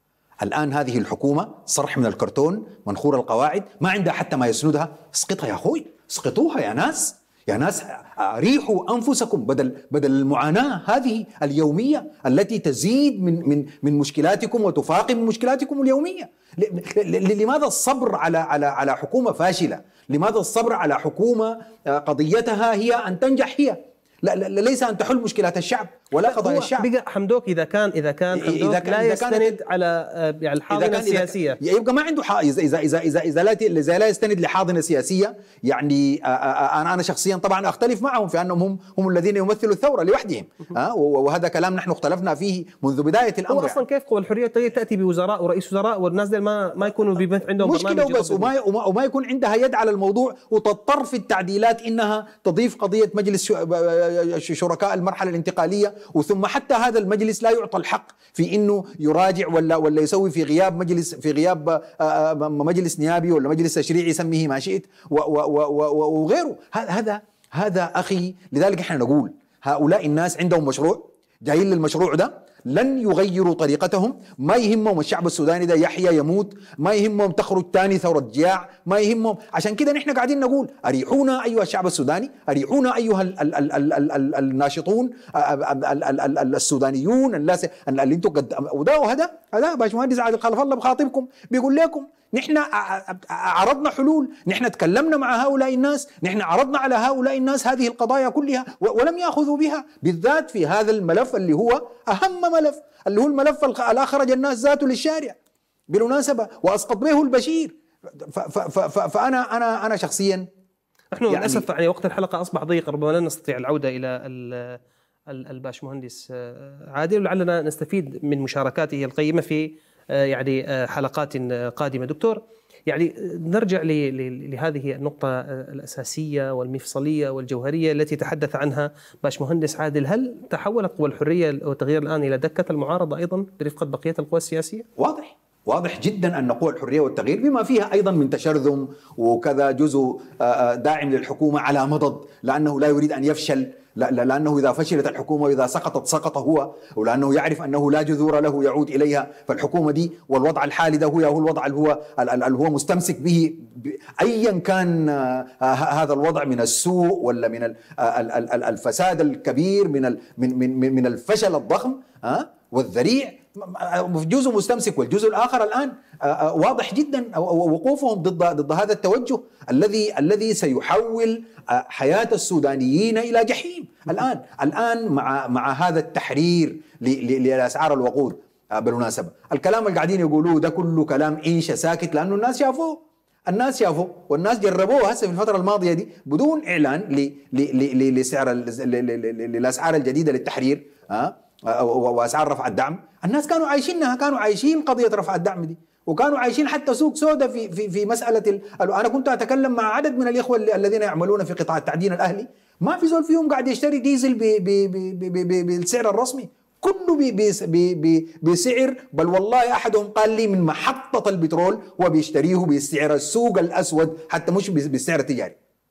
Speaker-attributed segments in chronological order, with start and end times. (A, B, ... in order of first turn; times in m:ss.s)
0:00.4-0:26.9 A
0:26.2-0:31.6 B
0:28.3-0:29.6 A
0:30.7-0:43.8 A
0:43.5-0:48.5 B
0:47.6-1:45.4 A
1:45.9-1:50.5 A
1:51.1-1:54.8 B
1:51.3-1:51.7 A
1:55.3-2:14.8 B
2:15.0-3:35.6 A